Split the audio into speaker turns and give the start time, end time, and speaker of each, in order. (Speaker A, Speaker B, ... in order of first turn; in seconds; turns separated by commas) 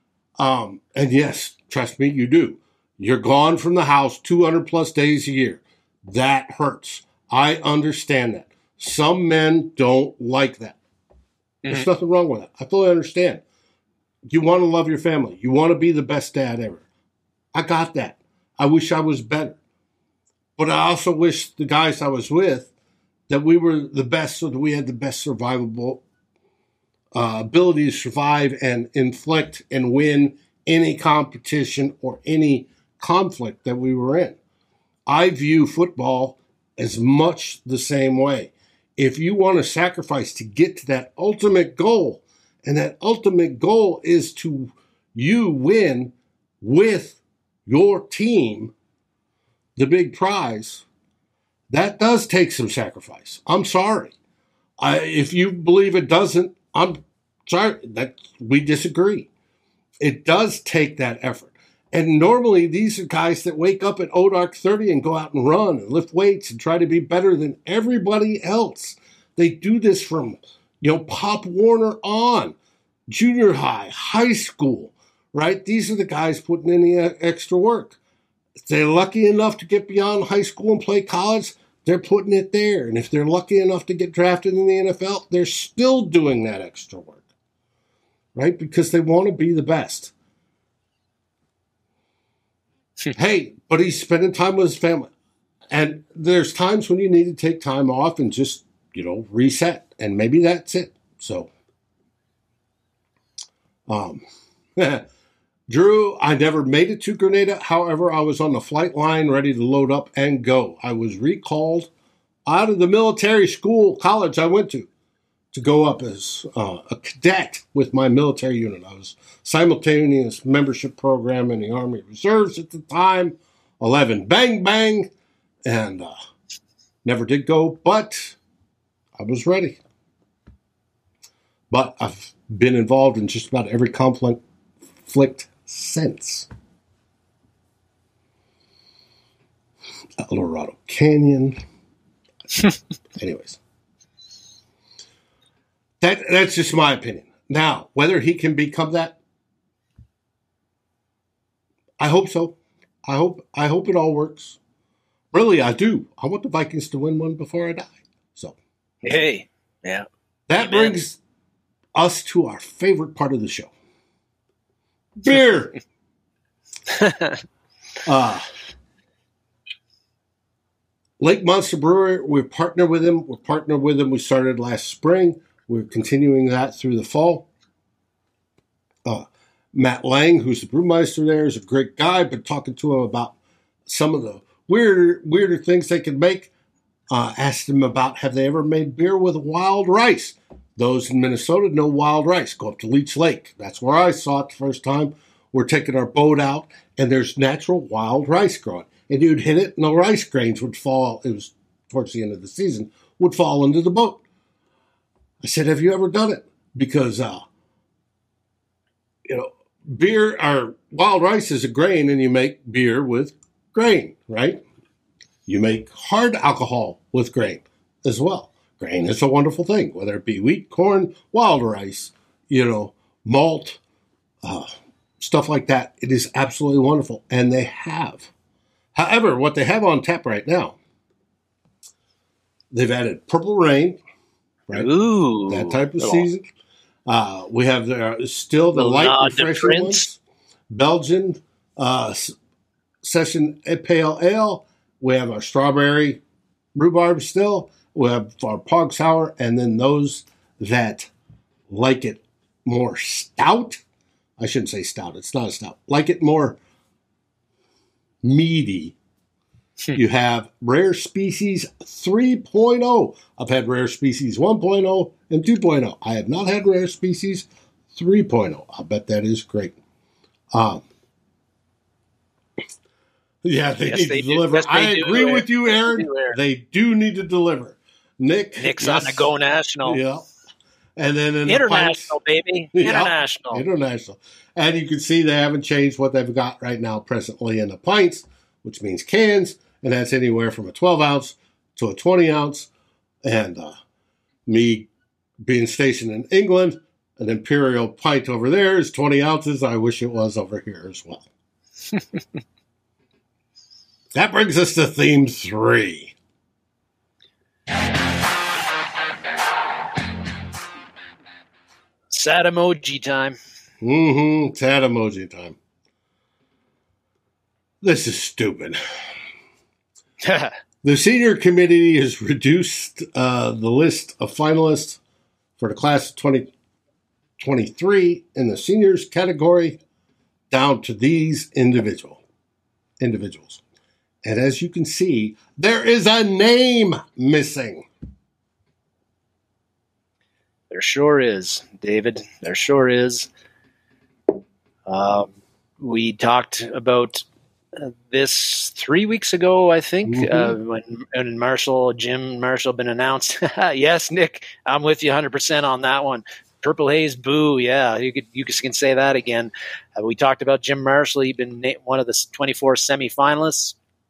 Speaker A: 0.4-10.8, Speaker A: 11.7-13.4, Speaker A: 14.3-16.8, Speaker A: 17.5-19.6, Speaker A: 20.6-22.7, Speaker A: 23.3-26.0, Speaker A: 27.1-34.4, Speaker A: 35.1-48.7, Speaker A: 49.8-50.9, Speaker A: 51.7-54.1, Speaker A: 54.8-59.3, Speaker A: 60.0-72.6, Speaker A: 73.1-78.0, Speaker A: 78.7-87.2, Speaker A: 88.3-90.1, Speaker A: 93.1-95.1, Speaker A: 95.7-101.5, Speaker A: 103.9-104.2, Speaker A: 104.8-105.1, Speaker A: 105.7-111.9, Speaker A: 112.5-114.9, Speaker A: 115.5-125.1, Speaker A: 125.7-126.1, Speaker A: 127.0-128.4, Speaker A: 129.2-129.8, Speaker A: 131.7-134.4, Speaker A: 135.0-136.5, Speaker A: 140.2-141.6, Speaker A: 143.2-143.6, Speaker A: 146.0-149.2, Speaker A: 152.0-154.6, Speaker A: 155.3-158.6, Speaker B: 159.0-160.1, Speaker A: 160.5-161.2, Speaker B: 160.6-161.0, Speaker A: 161.9-163.7, Speaker A: 165.2-165.8, Speaker B: 166.9-167.3, Speaker A: 168.1-168.5, Speaker A: 171.2-177.5, Speaker A: 179.1-186.5, Speaker A: 187.1-204.2, Speaker A: 205.4-207.5, Speaker A: 209.3-214.6, Speaker A: 215.5-223.8, Speaker A: 224.4-228.3, Speaker A: 228.9-230.8, Speaker A: 232.7-234.0, Speaker B: 234.7-236.3, Speaker A: 235.5-236.4, Speaker A: 237.1-242.3, Speaker B: 238.8-240.0, Speaker A: 243.0-246.2, Speaker A: 246.8-251.1, Speaker A: 251.7-253.8, Speaker A: 254.4-256.6, Speaker A: 258.2-259.0, Speaker A: 259.9-269.8, Speaker A: 270.5-270.8, Speaker A: 273.4-279.3, Speaker B: 273.9-276.4, Speaker B: 278.6-280.0, Speaker A: 279.9-280.2, Speaker A: 281.0-282.1, Speaker B: 281.5-283.6, Speaker A: 282.8-292.7, Speaker A: 293.2-293.8, Speaker A: 294.5-294.9, Speaker A: 295.4-301.3, Speaker A: 304.1-306.1, Speaker B: 312.1-313.4, Speaker A: 313.8-315.6, Speaker A: 317.8-318.8, Speaker B: 320.2-320.5, Speaker A: 320.8-325.0, Speaker A: 325.6-326.5, Speaker A: 327.4-329.8, Speaker A: 330.5-332.2, Speaker A: 333.0-333.6, Speaker A: 334.2-337.9, Speaker B: 340.7-343.3, Speaker B: 344.9-347.2, Speaker B: 347.8-363.8, Speaker A: 350.1-350.6